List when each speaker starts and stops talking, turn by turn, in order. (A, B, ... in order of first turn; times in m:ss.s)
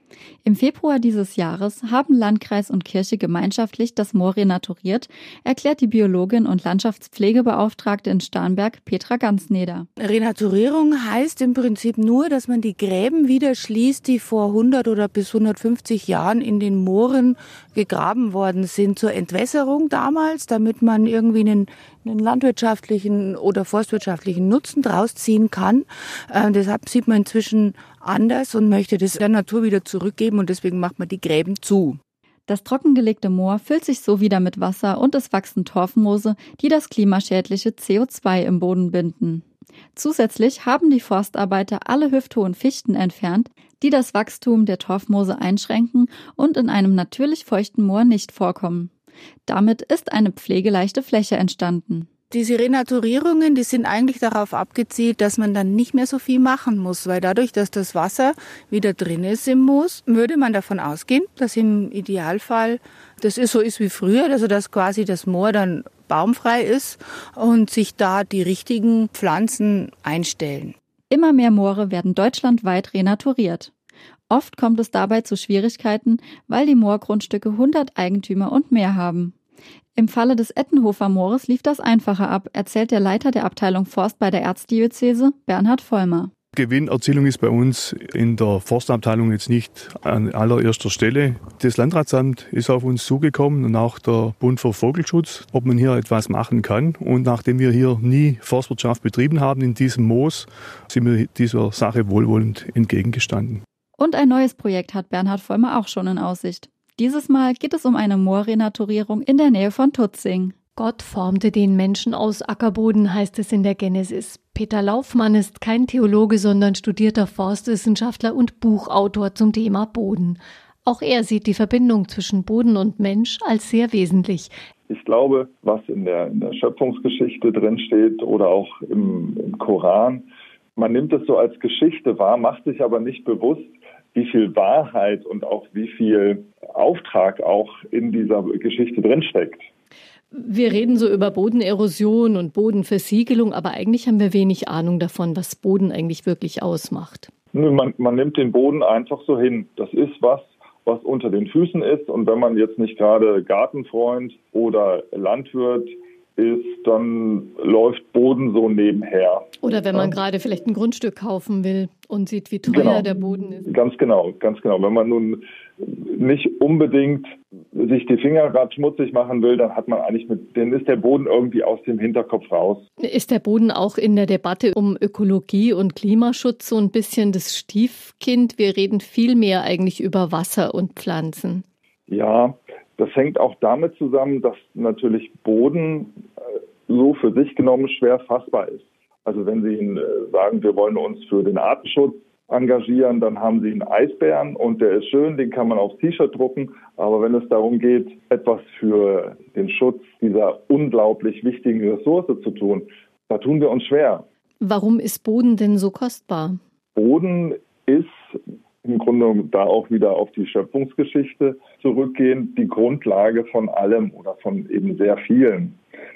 0:00.4-0:09.8 A
0:10.0-0:32.0 B
0:32.5-0:39.4 A
0:39.9-0:48.9 A
0:49.5-0:52.1 A
0:52.3-1:10.7 B
1:11.1-1:13.7 A
1:14.3-1:19.3 A
1:20.0-1:26.3 A
1:26.5-1:43.6 C
1:44.0-1:50.5 A
1:50.8-2:04.5 D
2:04.9-2:19.7 E
2:20.3-2:27.3 D
2:27.5-2:40.1 E
2:39.6-2:43.6 D
2:42.7-2:43.1 E
2:43.6-2:52.8 E
2:53.0-3:01.6 D
3:02.1-3:06.2 E
3:06.9-3:24.2 E
3:24.6-3:26.6 D
3:26.9-3:35.8 E